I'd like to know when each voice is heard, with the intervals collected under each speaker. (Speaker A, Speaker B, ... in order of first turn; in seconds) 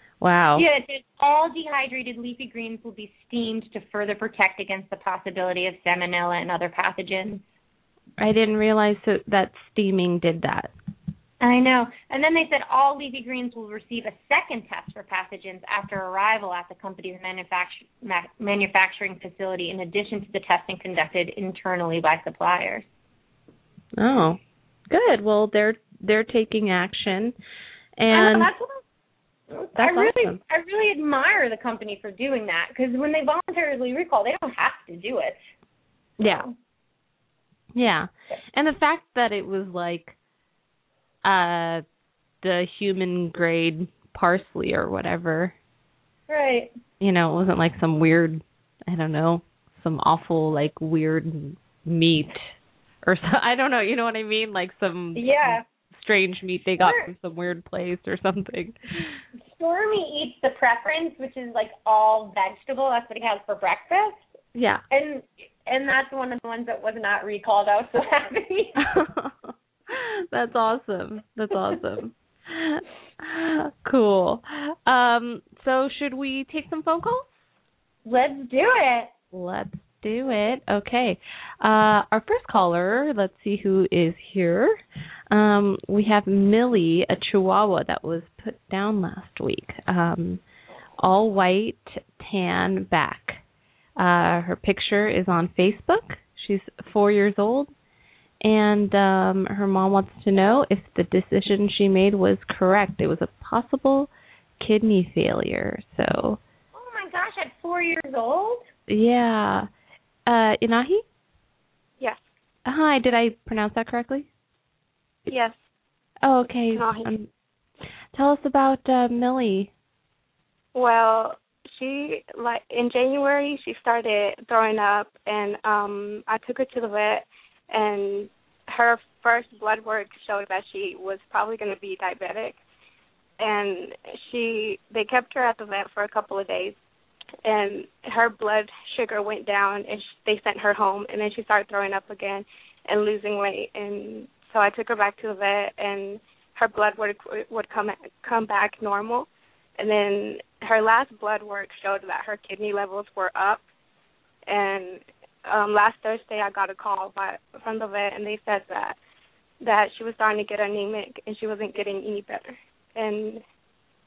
Speaker A: 0.2-0.7, 8.2-10.7, 24.0-24.4, 24.9-27.4, 28.0-28.5, 29.8-30.4, 36.2-36.5, 37.7-40.1, 41.2-41.8, 42.4-45.5, 47.0-52.5, 53.0-59.2, 64.5-64.8, 68.8-77.4, 79.3-84.8, 85.3-90.4, 91.0-93.4, 94.0-97.7, 98.4-106.4, 108.9-109.7, 110.3-111.0, 112.7-114.3, 116.2-117.3, 118.1-119.7
Speaker B: 0.6-7.4, 11.4-22.9, 28.1-28.8, 29.5-35.4, 36.2-36.5, 46.3-46.7, 55.1-55.6, 56.8-57.1, 59.6-64.2, 64.9-68.9, 78.0-79.1, 106.8-108.7
Speaker C: 115.3-115.6, 116.7-117.1, 120.7-132.6, 133.4-136.8, 137.4-153.6, 154.5-159.0, 159.6-163.4